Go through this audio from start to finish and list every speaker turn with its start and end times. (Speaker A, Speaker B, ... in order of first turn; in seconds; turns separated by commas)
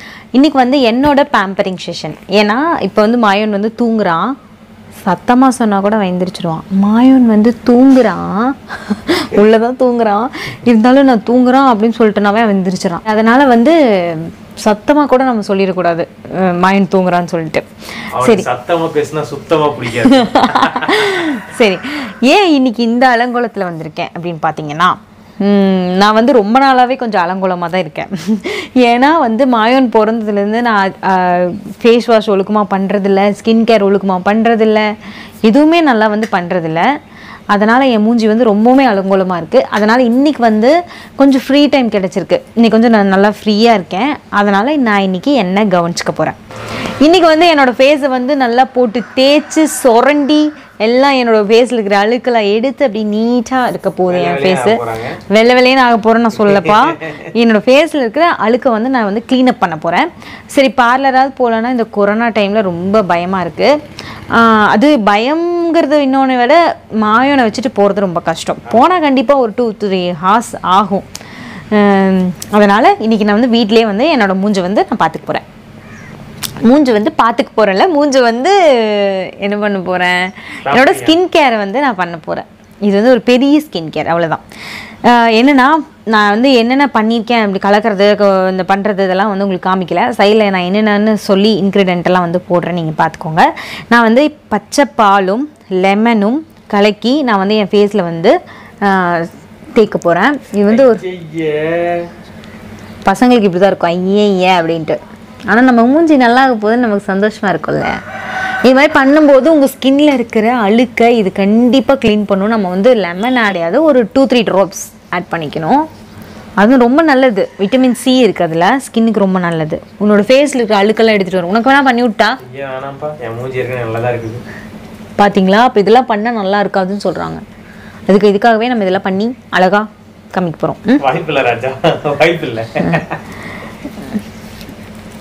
Speaker A: 0.3-4.3, Speaker A: 5.0-17.6, Speaker B: 18.1-21.2, Speaker A: 18.2-18.5, Speaker A: 20.1-34.9, Speaker A: 35.4-36.9, Speaker A: 37.5-46.4, Speaker A: 47.0-63.8, Speaker B: 54.1-55.2, Speaker B: 56.4-57.3, Speaker A: 64.3-71.0, Speaker A: 71.7-75.4, Speaker A: 76.6-84.4, Speaker B: 80.7-81.2, Speaker A: 85.0-101.0, Speaker B: 100.7-102.1, Speaker A: 103.0-108.0, Speaker A: 108.6-115.8, Speaker A: 116.6-122.4, Speaker B: 122.4-124.4, Speaker A: 125.2-127.4, Speaker A: 128.1-131.0, Speaker B: 131.0-133.2